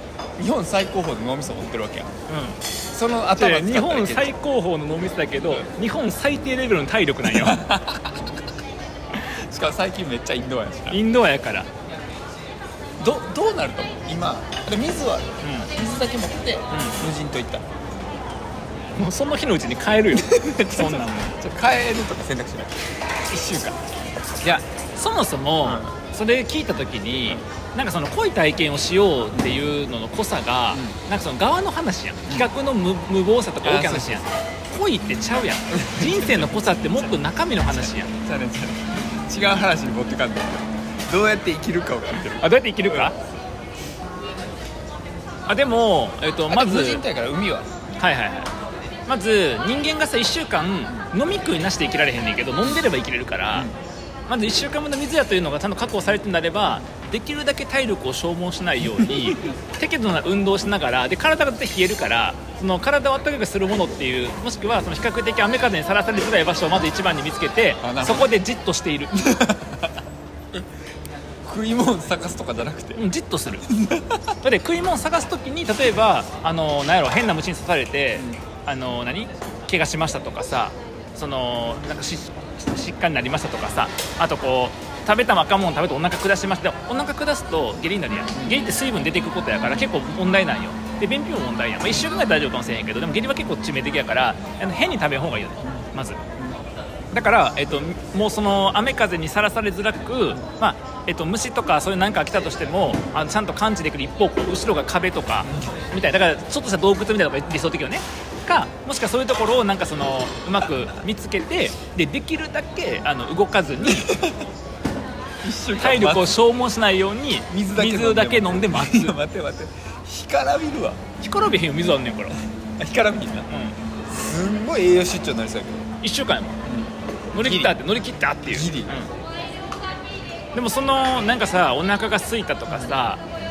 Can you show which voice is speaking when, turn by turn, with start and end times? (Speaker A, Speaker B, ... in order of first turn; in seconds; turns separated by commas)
Speaker A: 0.4-2.1, Speaker B: 2.3-2.6, Speaker A: 2.9-4.3, Speaker B: 3.4-7.6, Speaker A: 7.2-8.3, Speaker A: 9.1-11.0, Speaker B: 10.9-11.7, Speaker A: 13.0-17.6, Speaker B: 15.4-15.7, Speaker B: 16.7-17.0, Speaker B: 18.9-21.4, Speaker A: 20.1-23.8, Speaker B: 24.4-38.1, Speaker A: 25.6-25.9, Speaker A: 33.6-34.3, Speaker A: 35.7-43.1, Speaker B: 42.4-43.1, Speaker B: 45.5-47.0, Speaker A: 46.5-47.7, Speaker B: 48.0-48.5, Speaker B: 49.1-53.7, Speaker B: 54.3-69.3, Speaker A: 67.8-68.4, Speaker A: 69.2-69.9, Speaker A: 71.4-74.3, Speaker B: 72.9-73.7, Speaker B: 74.4-96.2, Speaker A: 78.1-78.4, Speaker A: 88.3-88.7, Speaker B: 97.1-114.1, Speaker A: 105.4-105.7, Speaker A: 113.8-114.5, Speaker A: 115.4-116.4, Speaker B: 115.7-119.2, Speaker A: 117.5-121.0, Speaker B: 121.2-122.3, Speaker A: 122.8-123.5, Speaker B: 123.5-123.8, Speaker A: 124.2-125.8, Speaker B: 126.0-126.6, Speaker A: 126.7-127.8, Speaker B: 127.3-129.1, Speaker A: 128.4-129.0, Speaker B: 130.5-133.2